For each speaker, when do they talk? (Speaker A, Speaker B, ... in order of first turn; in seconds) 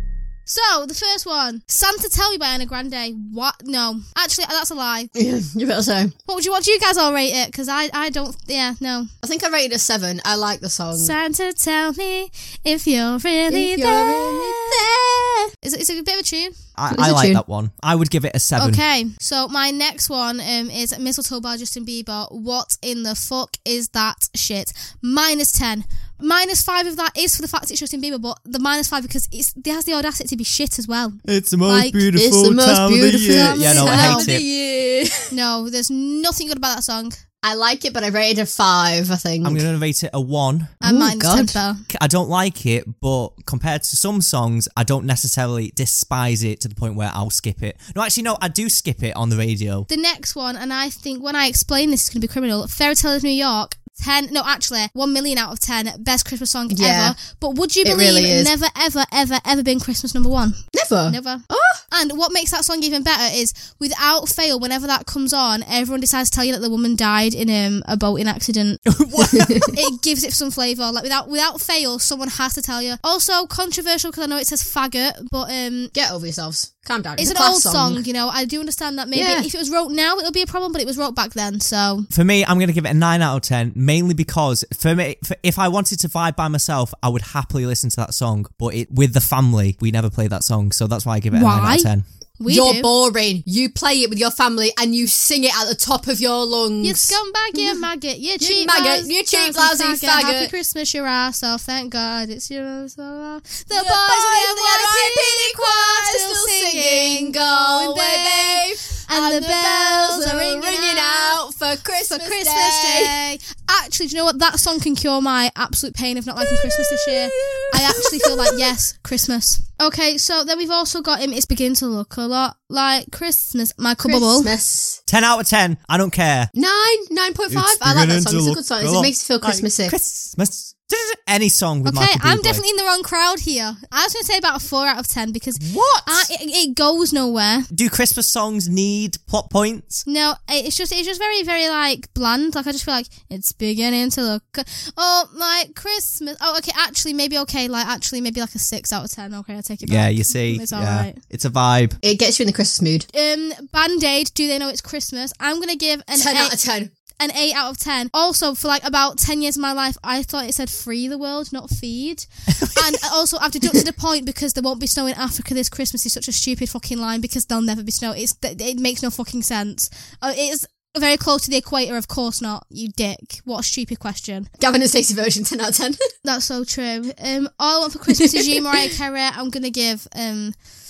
Speaker A: 0.5-5.1, 6.3-9.1, 11.0-16.6, 18.6-32.0, 33.3-34.3, 35.3-37.2, 40.8-41.8, 49.9-68.8, 69.7-75.9, 77.2-82.1, 91.3-91.9, 92.4-92.9, 96.8-111.4, 112.2-124.5, 131.8-137.7, 140.1-151.2, 153.1-156.6, 157.2-174.5, 176.2-180.6
Speaker B: 5.2-6.1, 9.2-11.1, 13.5-14.9, 16.9-17.4, 32.1-35.3, 37.4-39.7, 40.8-41.6, 56.7-57.2, 57.8-58.5, 60.7-61.8, 69.3-69.7, 75.9-78.0, 79.1-79.5, 92.5-97.8, 98.4-100.5, 103.7-113.2, 116.5-118.6, 124.0-125.0, 126.5-129.9, 152.0-153.1, 156.1-156.9, 174.6-176.0, 178.1-178.8
Speaker C: 16.8-18.8, 31.2-34.4, 39.4-40.8, 41.9-49.9, 68.9-69.8, 82.1-92.0, 125.1-126.5, 127.5-132.6, 135.6-136.3, 137.7-140.0, 149.8-152.0, 162.6-162.9